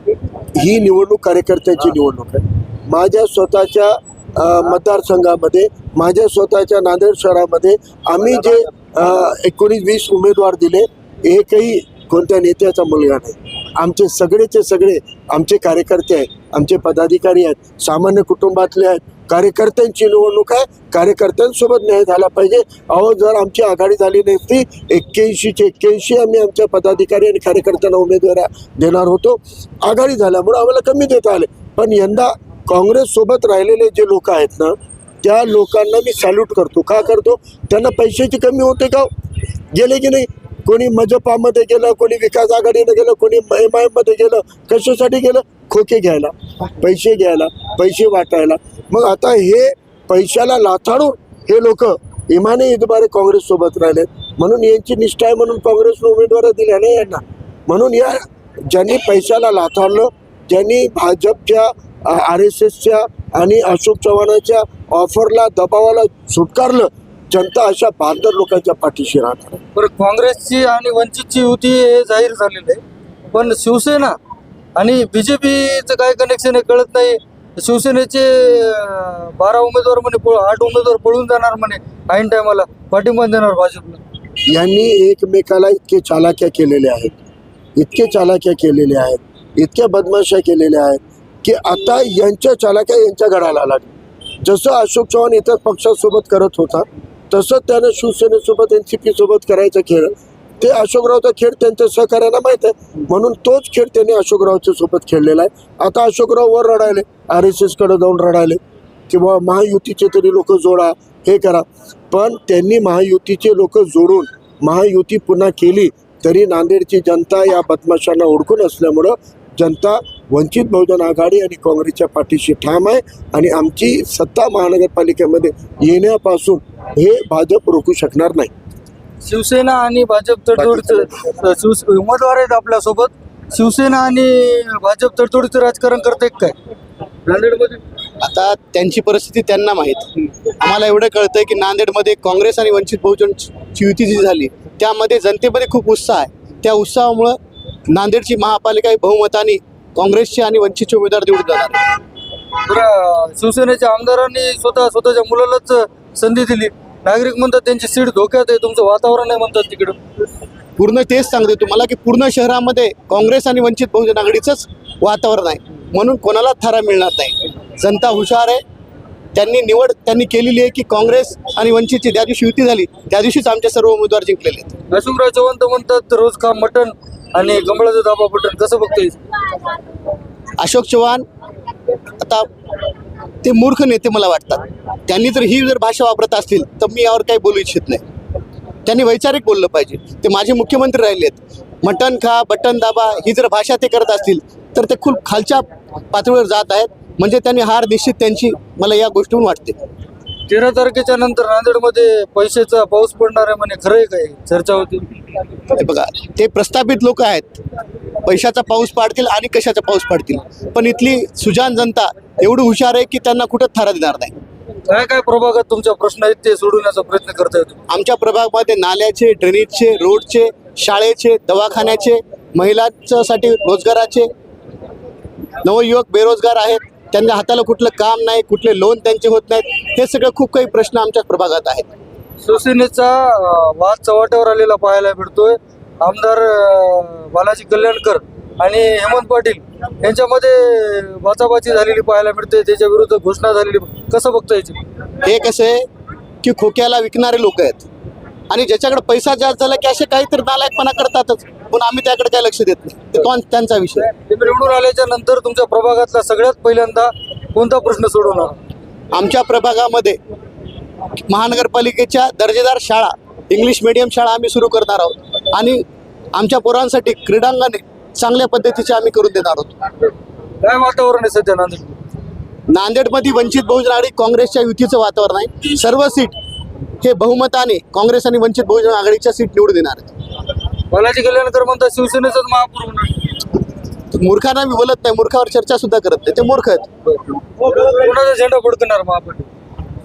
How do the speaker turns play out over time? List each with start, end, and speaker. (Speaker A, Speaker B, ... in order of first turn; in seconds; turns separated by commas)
Speaker A: 0.6-39.1, Speaker A: 39.7-69.6, Speaker B: 69.8-74.2, Speaker B: 74.8-84.0, Speaker A: 84.5-87.1, Speaker A: 87.8-128.5, Speaker B: 129.2-136.6, Speaker A: 130.6-131.1, Speaker B: 137.3-137.8, Speaker C: 138.2-147.4, Speaker C: 147.9-151.9, Speaker B: 152.7-160.0, Speaker C: 160.8-168.6, Speaker C: 169.3-174.7, Speaker B: 174.9-179.2, Speaker C: 180.6-181.2, Speaker C: 182.2-182.5, Speaker C: 183.4-188.0, Speaker C: 188.9-199.8, Speaker B: 200.5-205.1, Speaker C: 205.7-207.6, Speaker C: 208.2-214.3, Speaker B: 214.9-217.8, Speaker C: 217.9-224.3, Speaker C: 225.6-231.9, Speaker B: 232.4-244.8, Speaker C: 245.2-245.8, Speaker C: 246.4-247.9, Speaker C: 248.5-254.1, Speaker B: 254.1-258.5, Speaker C: 259.1-260.2, Speaker C: 261.3-265.8, Speaker C: 266.4-269.8, Speaker B: 270.6-272.0, Speaker C: 272.7-276.4, Speaker C: 277.0-280.1, Speaker B: 280.9-283.3, Speaker C: 284.1-286.9, Speaker B: 287.6-289.5